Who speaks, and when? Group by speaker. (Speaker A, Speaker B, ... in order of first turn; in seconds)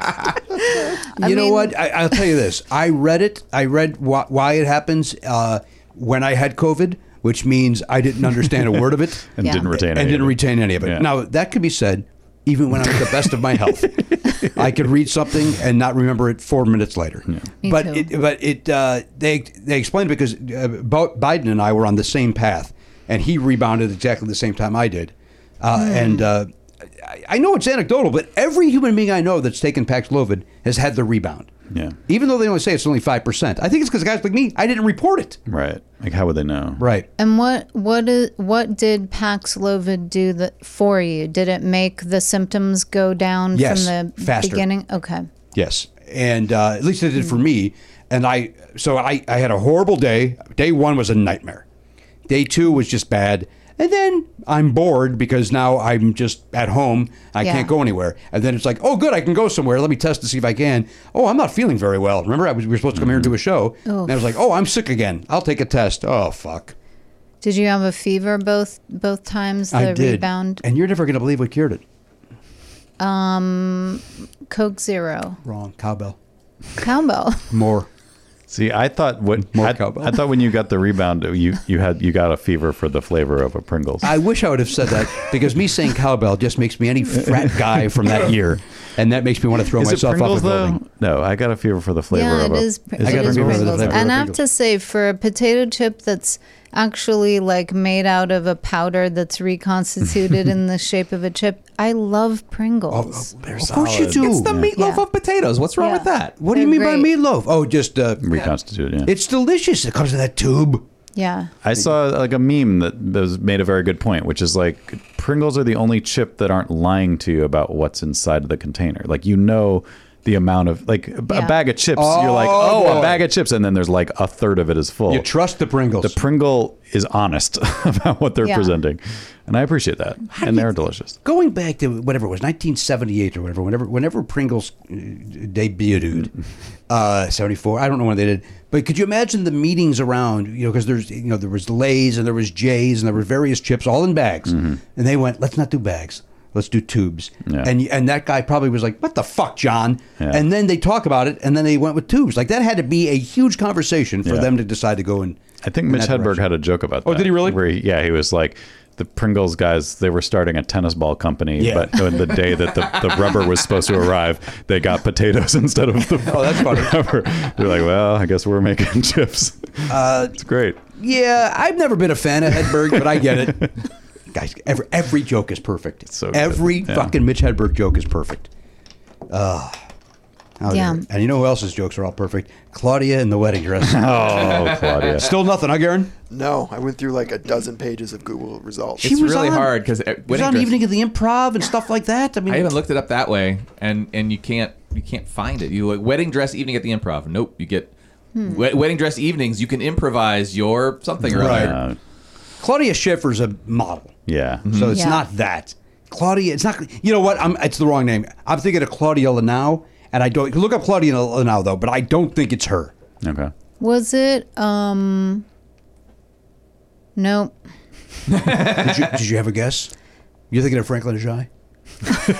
Speaker A: 0.7-2.2, 9.4-9.7, 17.6-18.1, 25.7-26.2, 37.2-45.3, 57.4-57.7, 63.9-64.2, 67.4-70.6, 73.0-75.4, 76.8-77.5, 92.1-103.3, 104.7-105.0, 105.8-107.1, 111.1-111.5, 121.3-121.6, 128.4-128.7, 180.7-181.0, 198.3-198.6, 204.9-205.2, 213.8-215.4, 217.2-217.6
Speaker B: 1.2-31.5, 32.1-35.4, 36.8-37.1, 43.5-44.6, 45.5-51.6, 52.2-66.7, 69.7-71.8, 75.4-76.2, 77.5-77.9, 79.4-80.2, 84.0-90.8, 93.0-94.4, 102.9-104.7, 106.4-108.5, 109.0-110.9, 121.9-123.2, 125.1-126.2, 130.3-130.7, 131.2-136.3, 136.9-156.5, 157.0-157.6, 161.6-162.3, 166.2-167.0, 169.9-173.8, 174.3-178.5, 179.3-179.8, 180.6-186.1, 189.0-192.8, 201.3-201.8, 202.6-212.9, 218.4-219.9, 220.5-221.5
Speaker C: 9.3-11.1, 31.7-32.0, 35.5-36.8, 63.0-63.3, 78.5-84.1, 89.7-94.1, 103.5-104.7, 108.2-109.1, 111.6-125.3, 126.0-131.1, 144.5-144.8, 147.4-147.7, 150.2-150.4, 154.2-154.5, 155.6-170.8, 176.1-177.1, 183.8-185.3, 201.3-202.0, 204.3-204.6, 213.2-213.5
Speaker D: 103.7-106.3, 189.0-190.8, 192.5-201.8, 204.6-204.9, 218.3-218.8
Speaker E: 186.3-189.1